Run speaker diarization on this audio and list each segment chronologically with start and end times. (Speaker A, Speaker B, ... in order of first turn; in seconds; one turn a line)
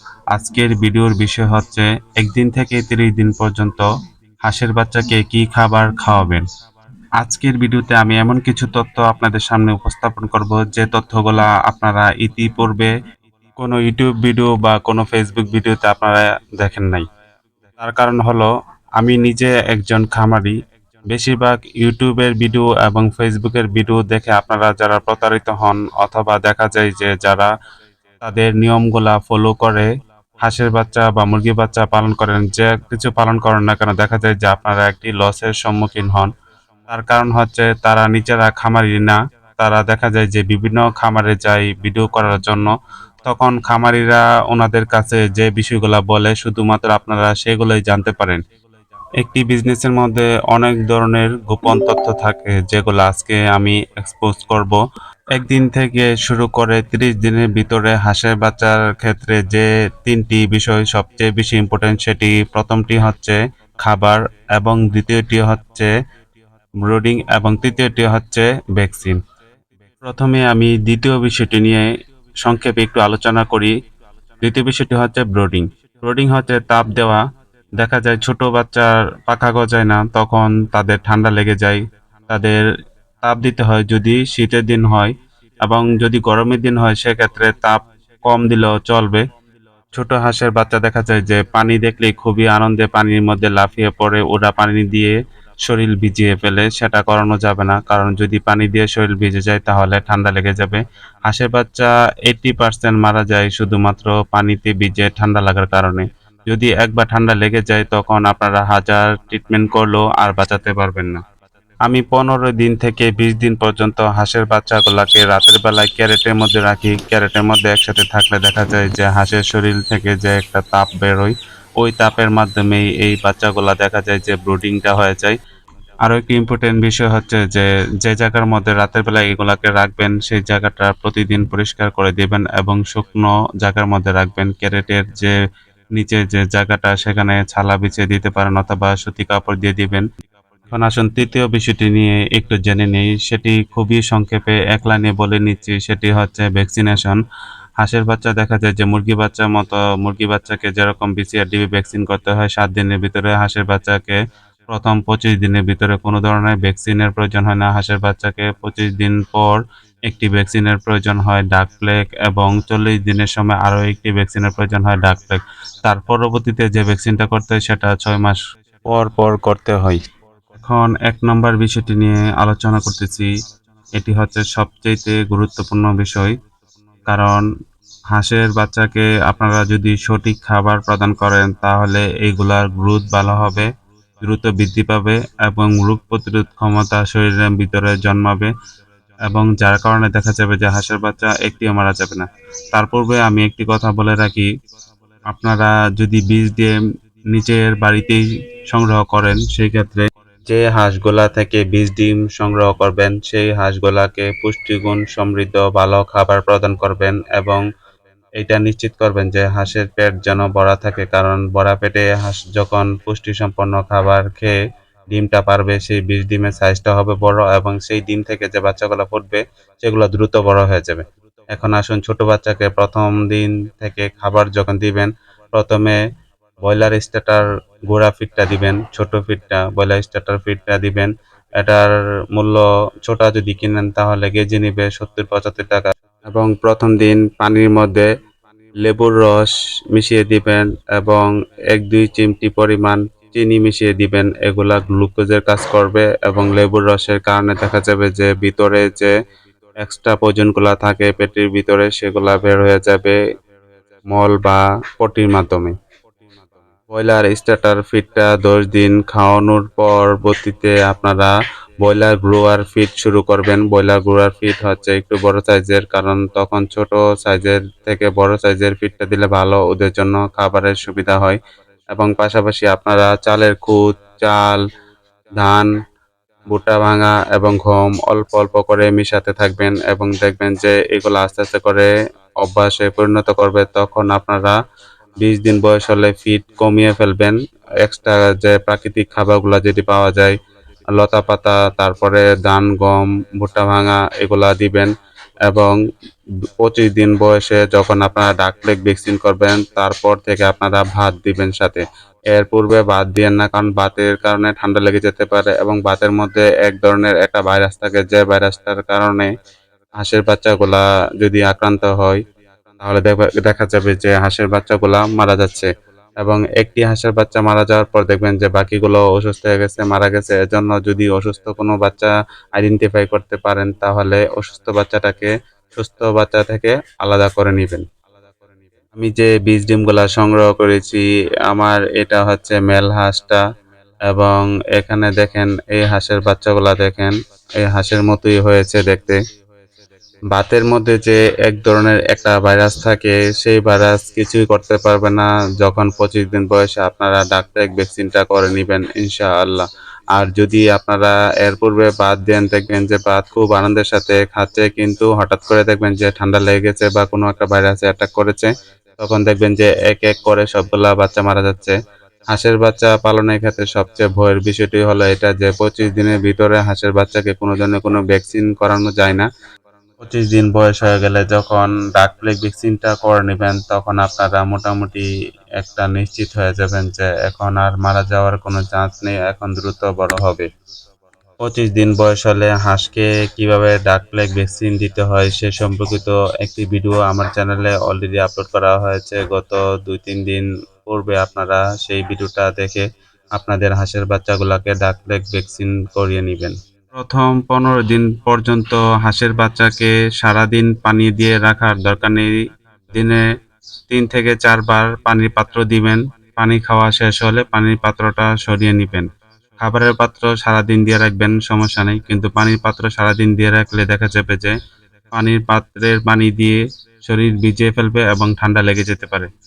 Speaker A: 0.3-3.9
Speaker A: 4.5-6.4
Speaker A: 7.2-12.9
Speaker A: 13.6-17.0
Speaker A: 17.8-18.5
Speaker A: 19.0-20.5
Speaker A: 21.1-27.5
Speaker A: 28.2-29.9
Speaker A: 30.4-36.3
Speaker A: 36.9-42.7
Speaker A: 43.2-48.4
Speaker A: 49.2-54.8
Speaker A: 55.4-65.9
Speaker A: 66.8-69.2
Speaker A: 70.0-71.9
Speaker A: 72.4-73.7
Speaker A: 74.4-77.2
Speaker A: 77.8-82.6
Speaker A: 83.2-85.1
Speaker A: 85.6-89.2
Speaker A: 89.9-111.2
Speaker A: 111.9-125.3
Speaker A: 126.0-135.3
Speaker A: 136.0-140.0
Speaker A: 140.7-147.2
Speaker A: 147.8-154.2
Speaker A: 154.7-170.0
Speaker A: 170.6-173.3
Speaker A: 174.0-176.3
Speaker A: 177.1-177.4
Speaker A: 178.1-183.7
Speaker A: 184.2-188.5
Speaker A: 189.3-194.5
Speaker A: 195.3-196.7
Speaker A: 197.3-207.6
Speaker A: 208.4-214.6
Speaker A: 215.1-221.0
Speaker A: 221.5-226.0
Speaker A: 226.7-238.1
Speaker A: 238.8-249.1
Speaker A: 249.8-253.2
Speaker A: 254.1-255.7
Speaker A: 256.9-271.4
Speaker A: 271.9-274.6
Speaker A: 275.4-275.7
Speaker A: 276.5-281.9
Speaker A: 282.4-284.6
Speaker A: 285.2-290.4
Speaker A: 290.9-294.9
Speaker A: 295.5-295.8
Speaker A: 296.6-309.3
Speaker A: 310.0-312.2
Speaker A: 312.8-315.7
Speaker A: 316.2-327.8
Speaker A: 329.0-333.4
Speaker A: 334.1-339.2
Speaker A: 340.3-361.8
Speaker A: 362.3-369.2
Speaker A: 370.0-375.1
Speaker A: 375.6-380.4
Speaker A: 381.4-392.8
Speaker A: 393.4-402.4
Speaker A: 402.9-403.2
Speaker A: 403.9-409.1
Speaker A: 409.6-414.5
Speaker A: 415.1-419.3